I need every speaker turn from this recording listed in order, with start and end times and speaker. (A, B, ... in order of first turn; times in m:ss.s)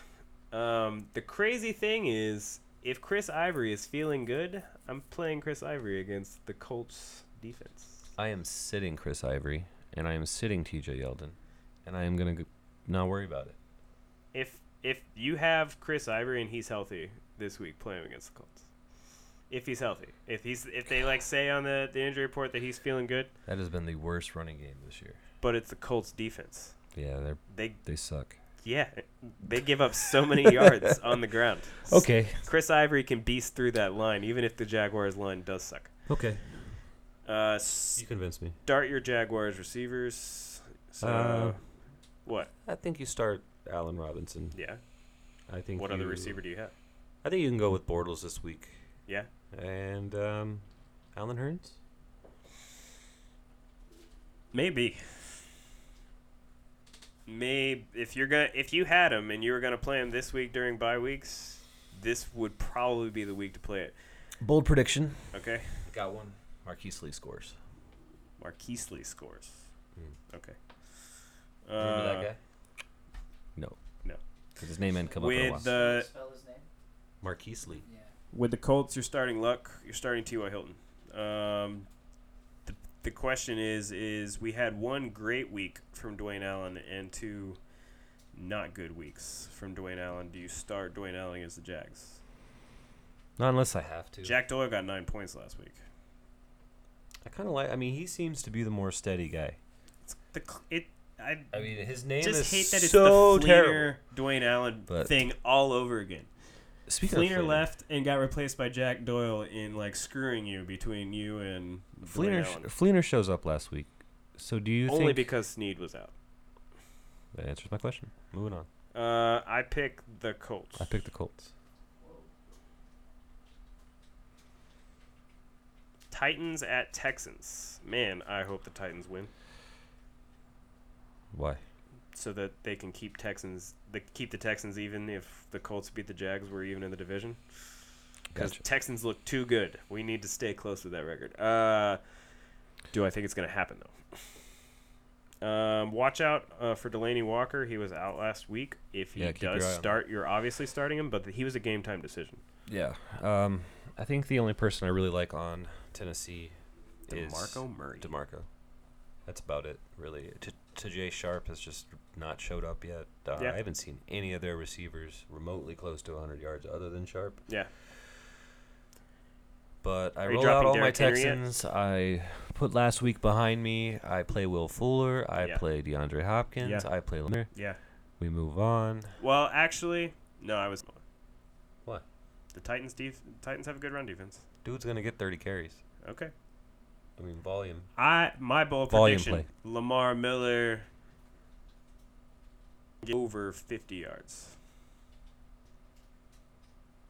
0:00.5-0:08.0 A
0:08.2-0:13.6 B
0:14.3-0:18.7 A
0:19.5-0:23.3 A
0:23.4-0:25.2 B
0:25.4-0:26.9 A
0:26.9-0:28.3 B
0:27.5-0:27.8 A
0:28.6-0:35.9 A
0:30.4-0:30.8 B
0:31.9-0:32.4 B
0:36.1-0:36.6 B
0:37.2-0:38.0 A
0:38.0-0:38.6 B
0:38.6-0:41.6 A
0:41.0-0:41.6 B
0:42.2-0:42.5 A
0:42.6-0:44.6 B
0:44.5-0:44.8 A
0:45.5-0:46.4 B
0:45.8-0:46.7 A
0:47.2-0:48.8 B
0:49.5-0:50.6 B
0:51.1-0:51.8 B
0:54.5-0:55.3 A
0:57.3-1:03.9 A
1:04.4-1:07.6 B
1:05.3-1:05.9 A
1:08.4-1:09.7 A
1:10.3-1:12.3 A
1:11.8-1:12.4 B
1:14.6-1:15.7 B
1:14.9-1:16.7 C
1:15.2-1:16.1 A
1:17.2-1:17.8 B
1:17.8-1:18.1 C
1:18.3-1:21.9 A
1:22.6-1:27.6 A
1:28.3-1:32.2 A
1:33.4-1:34.4 B
1:34.2-1:35.8 A
1:37.2-1:39.6 B
1:40.0-1:46.3 A
1:41.5-1:43.9 B
1:44.9-1:45.2 B
1:46.9-1:47.6 B
1:47.0-1:52.7 A
1:52.0-1:55.3 B
1:54.9-1:56.1 A
1:57.3-1:58.7 B
1:58.9-2:00.9 A
2:00.8-2:01.5 B
2:02.0-2:02.3 C
2:06.1-2:09.3 A
2:11.3-2:11.6 B
2:12.1-2:22.0 A
2:18.3-2:18.6 B
2:22.9-2:24.3 A
2:25.4-2:32.4 A
2:29.2-2:30.0 B
2:32.7-2:36.5 B
2:37.1-2:38.1 A
2:37.1-2:38.5 B
2:39.2-2:47.4 B
2:49.8-2:57.5 B
2:50.2-2:51.4 A
2:55.4-2:55.6 A
2:56.6-2:56.9 A
2:57.5-2:57.8 A
2:58.2-2:59.2 B
2:59.2-3:01.0 A
3:02.5-3:04.4 A
3:04.6-3:05.8 B
3:06.0-3:06.3 A
3:07.2-3:07.9 B
3:08.0-3:10.9 A
3:08.9-3:09.4 B
3:13.0-3:14.6 A